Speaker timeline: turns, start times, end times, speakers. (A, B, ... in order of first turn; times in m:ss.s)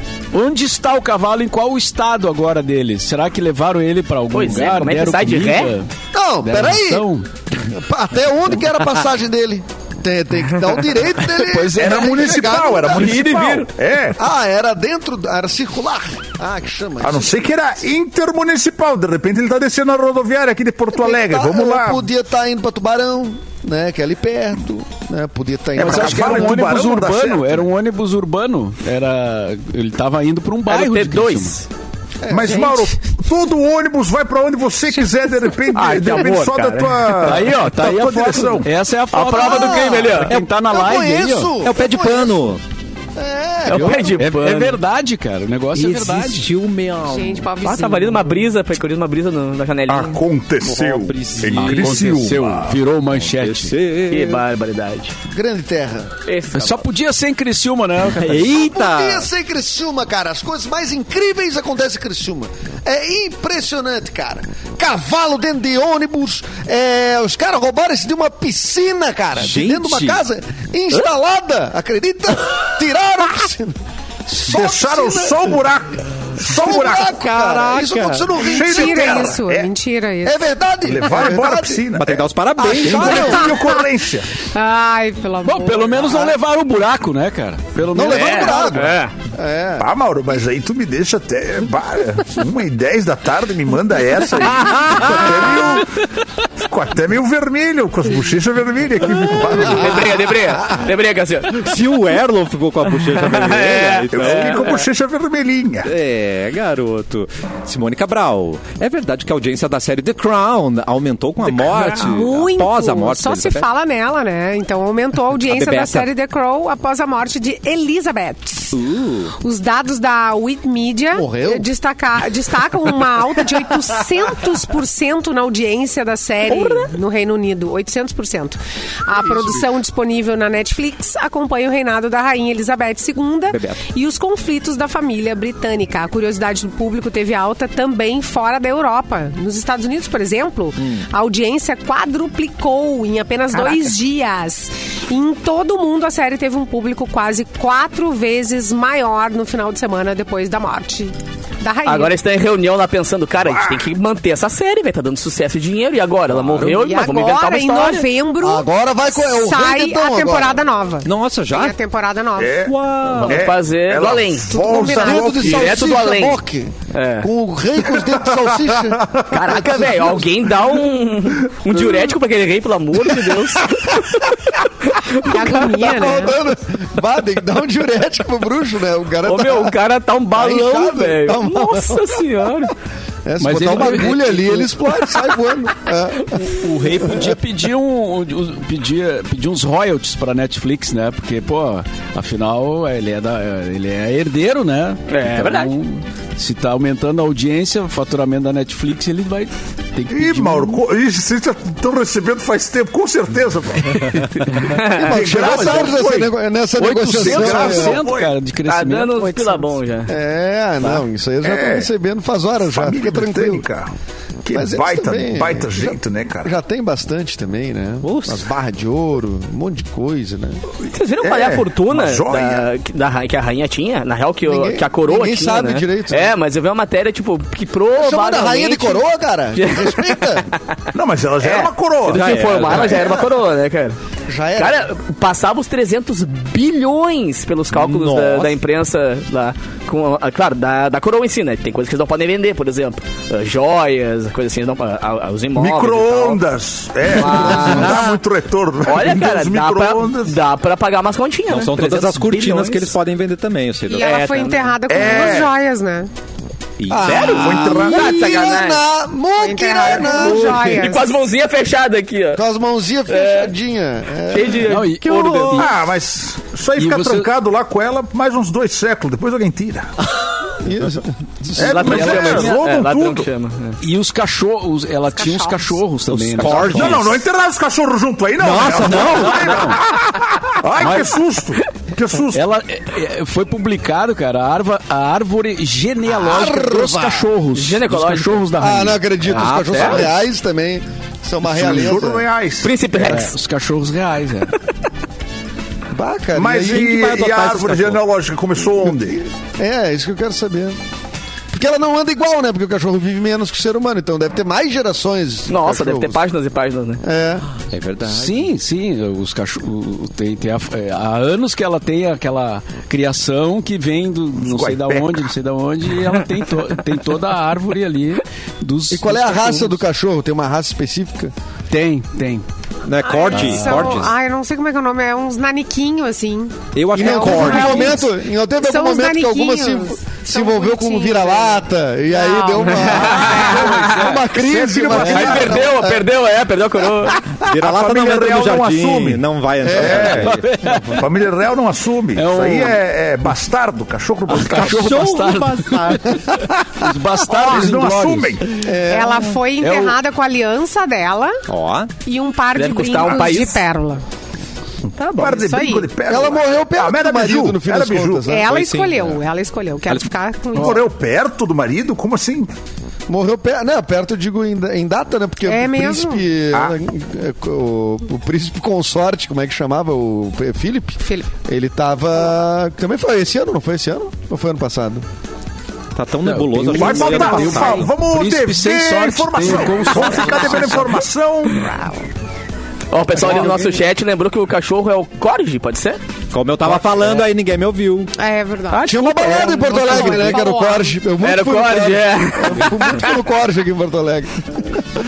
0:00.3-0:05.9 A
0:04.3-0:05.7 B
0:06.1-0:13.1 C
0:06.4-0:07.3 A
0:11.2-0:12.2 A
0:11.8-0:14.2 D
0:12.9-0:13.7 B
0:14.2-0:17.4 C
0:17.0-0:22.1 D
0:20.9-0:26.6 C
0:25.8-0:27.7 D
0:25.8-0:31.6 A
0:30.7-0:31.7 B
0:32.2-0:32.8 C
0:32.3-0:38.7 D
0:35.7-0:37.4 B
0:37.2-0:41.6 A
0:39.1-0:40.4 B
0:39.4-0:40.1 C
0:40.6-0:42.4 C
0:41.6-0:42.6 E
0:43.2-0:44.1 C
0:43.7-0:44.8 B
0:43.7-0:46.5 A
0:45.7-0:47.5 E
0:47.0-0:48.3 F
0:47.6-0:50.2 B
0:49.9-0:52.8 D
0:50.6-0:52.1 E
0:51.5-0:53.8 A
0:53.1-0:54.4 E
0:54.1-0:55.1 B
0:55.3-0:56.1 C
0:56.3-0:56.9 B
0:56.5-0:58.5 A
0:58.2-0:59.3 E
0:58.4-1:13.8 C
1:09.4-1:10.2 E
1:14.3-1:15.6 C
1:14.4-1:17.1 D
1:16.4-1:19.3 C
1:17.0-1:18.4 E
1:18.4-1:20.5 F
1:18.4-1:19.7 D
1:20.2-1:21.9 C
1:20.8-1:24.3 D
1:22.0-1:23.4 E
1:22.6-1:23.5 C
1:24.5-1:26.1 F
1:25.4-1:28.9 A
1:27.9-1:29.9 C
1:28.0-1:29.1 B
1:29.8-1:36.0 D
1:34.6-1:35.3 E
1:36.6-1:40.2 D
1:39.5-1:41.7 B
1:41.5-1:44.8 E
1:43.2-1:44.8 B
1:44.1-1:45.9 D
1:45.8-1:53.7 E
1:51.5-1:52.0 B
1:51.9-1:58.8 F
1:55.5-1:56.1 E
1:58.7-1:59.3 E
1:59.4-2:32.1 F
2:01.1-2:01.7 C
2:06.5-2:06.9 B
2:13.5-2:13.8 E
2:20.8-2:21.1 E
2:31.8-2:38.1 B
2:33.4-2:33.9 D
2:36.6-2:42.7 F
2:38.4-2:40.6 C
2:41.0-2:41.8 E
2:42.4-2:45.9 D
2:42.7-2:43.4 E
2:43.1-2:44.6 B
2:44.5-2:45.4 F
2:45.0-2:50.3 C
2:45.3-2:46.4 B
2:46.9-2:47.3 B
2:48.9-2:49.3 D
2:49.3-2:54.3 B
2:54.8-2:55.4 B
2:55.2-2:56.4 F
2:55.4-2:59.8 C
2:59.2-3:02.7 B
3:00.3-3:02.1 C
3:03.3-3:07.4 C
3:03.4-3:05.0 A
3:06.3-3:20.8 A
3:15.1-3:15.7 B
3:20.1-3:24.0 D
3:24.1-3:24.7 A
3:24.7-3:25.8 B
3:25.0-3:28.0 C
3:25.0-3:26.3 D
3:25.5-3:25.9 A
3:26.8-3:29.6 A
3:27.2-3:28.3 D
3:28.7-3:30.1 B
3:30.1-3:33.6 C
3:31.4-3:31.9 D
3:32.7-3:33.9 D
3:34.4-3:36.5 D
3:34.5-3:40.6 C
3:38.0-3:38.4 E
3:40.9-3:50.6 B
3:41.2-3:42.7 D
3:44.4-3:46.4 C
3:48.0-3:50.5 C
3:50.9-3:52.4 D
3:51.4-3:54.0 B
3:52.1-3:53.2 E
3:52.8-3:53.2 C
3:54.3-3:54.9 C
3:54.6-4:06.4 B
3:57.7-3:58.6 E
4:05.6-4:10.4 D
4:07.1-4:08.0 B
4:08.8-4:13.0 B
4:11.5-4:14.3 E
4:13.9-4:16.1 F
4:14.0-4:15.0 B
4:14.9-4:15.5 D
4:16.8-4:17.4 E
4:16.9-4:20.8 C
4:17.0-4:18.8 B
4:17.2-4:18.1 D
4:19.4-4:21.1 F
4:20.0-4:22.4 B
4:22.4-4:24.7 C
4:23.1-4:23.5 B
4:24.3-4:25.7 B
4:24.6-4:25.8 A
4:25.5-4:29.9 D
4:26.8-4:27.3 A
4:30.6-4:32.2 C
4:31.6-4:33.3 D
4:31.6-4:33.8 B
4:31.8-4:32.6 A
4:33.8-4:37.1 A
4:35.1-4:35.8 F
4:36.1-4:37.2 E
4:36.6-4:42.4 D
4:38.4-4:39.7 E
4:39.0-4:39.9 A
4:40.8-4:41.2 A
4:42.3-4:49.4 A
4:46.1-4:47.3 C
4:47.5-4:48.5 B
4:48.6-4:52.3 C
4:49.3-4:50.1 E
4:49.6-4:50.0 B
4:51.4-4:52.7 D
4:52.6-4:53.4 B
4:52.9-4:54.5 A
4:55.9-4:58.0 C
4:56.4-4:59.2 D
4:59.0-5:00.8 C
5:01.5-5:06.2 C
5:05.5-5:07.0 B
5:07.0-5:07.5 C
5:07.7-5:08.5 E
5:08.0-5:19.8 A
5:14.4-5:15.3 D
5:18.9-5:21.3 C
5:21.7-5:22.4 A
5:22.8-5:24.1 E
5:23.0-5:33.4 F
5:23.4-5:23.9 A
5:26.8-5:28.0 E
5:27.0-5:36.1 C
5:32.7-5:34.2 B
5:34.3-5:35.6 D
5:34.9-5:37.2 B
5:37.4-5:40.4 E
5:37.6-5:39.2 D
5:39.6-5:41.0 C
5:39.7-5:40.3 D
5:40.2-5:41.1 A
5:40.9-5:44.9 D
5:42.2-5:42.8 A
5:44.3-5:46.2 A
5:44.5-5:46.4 E
5:46.7-5:48.4 A
5:47.3-5:48.4 D
5:48.6-5:49.3 C
5:48.9-5:51.4 F
5:49.6-5:50.0 A
5:51.5-5:51.9 E
5:52.0-5:54.0 F
5:52.6-5:53.6 B
5:55.1-5:58.3 D
5:55.2-5:55.9 F
5:56.1-5:58.5 C
5:58.3-6:00.9 F
5:58.4-5:59.2 E
6:00.6-6:02.5 D
6:03.1-6:15.0 C
6:05.4-6:06.2 F
6:11.0-6:11.3 F
6:16.0-6:17.9 E
6:16.2-6:21.0 A
6:16.7-6:21.7 D
6:21.5-6:22.0 F
6:22.9-6:26.0 B
6:23.2-6:23.8 C
6:26.3-6:28.1 E
6:26.8-6:27.2 B
6:28.2-6:31.0 F
6:28.7-6:30.4 B
6:28.8-6:34.8 C
6:31.2-6:33.1 B